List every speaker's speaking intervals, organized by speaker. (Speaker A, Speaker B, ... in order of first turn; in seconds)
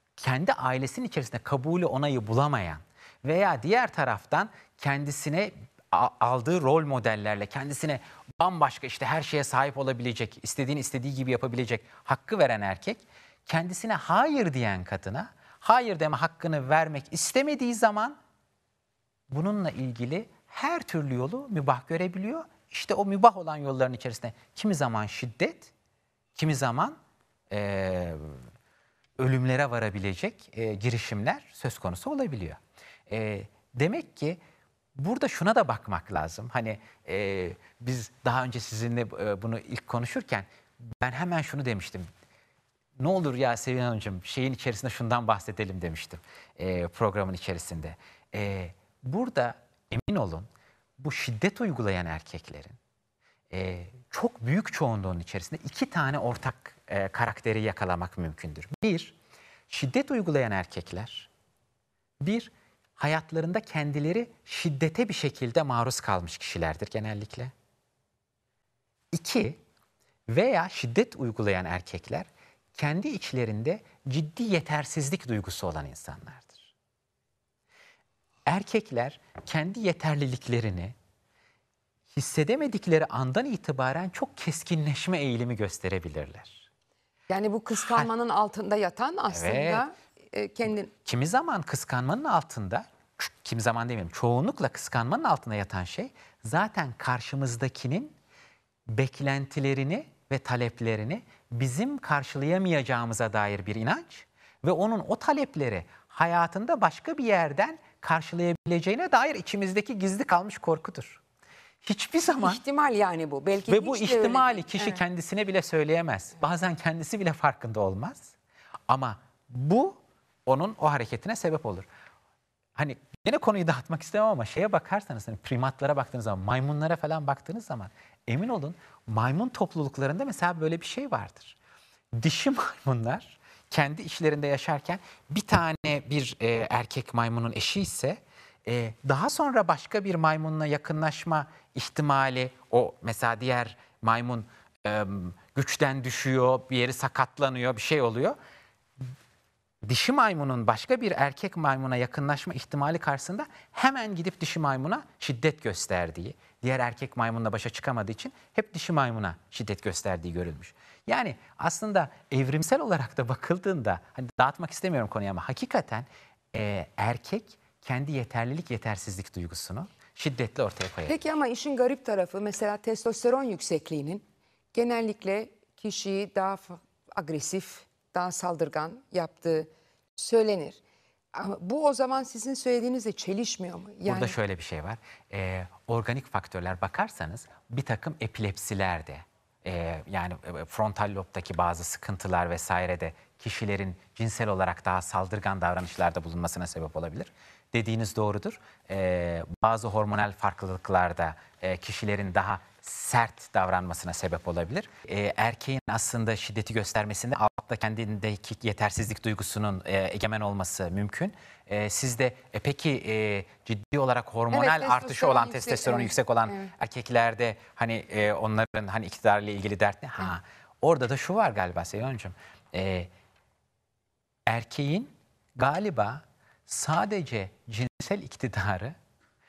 Speaker A: 0.2-18.1, 19.3-25.7, 26.3-27.0, 27.5-28.4, 29.2-34.4, 34.9-42.1, 43.0-50.5, 51.0-52.8, 53.5-59.1, 59.7-61.3, 62.2-67.5, 69.1-69.6, 70.3-76.7, 78.5-80.9, 82.1-86.7, 87.8-88.1, 89.3-89.8, 91.0-98.1, 98.9-111.2, 111.8-112.6, 113.7-118.3, 118.9-121.8, 122.8-131.6, 132.1-148.4, 149.8-171.2, 184.1-223.1, 224.5-228.9
Speaker B: 87.3-90.9, 112.3-115.0, 171.1-180.8, 181.3-184.4, 214.5-216.7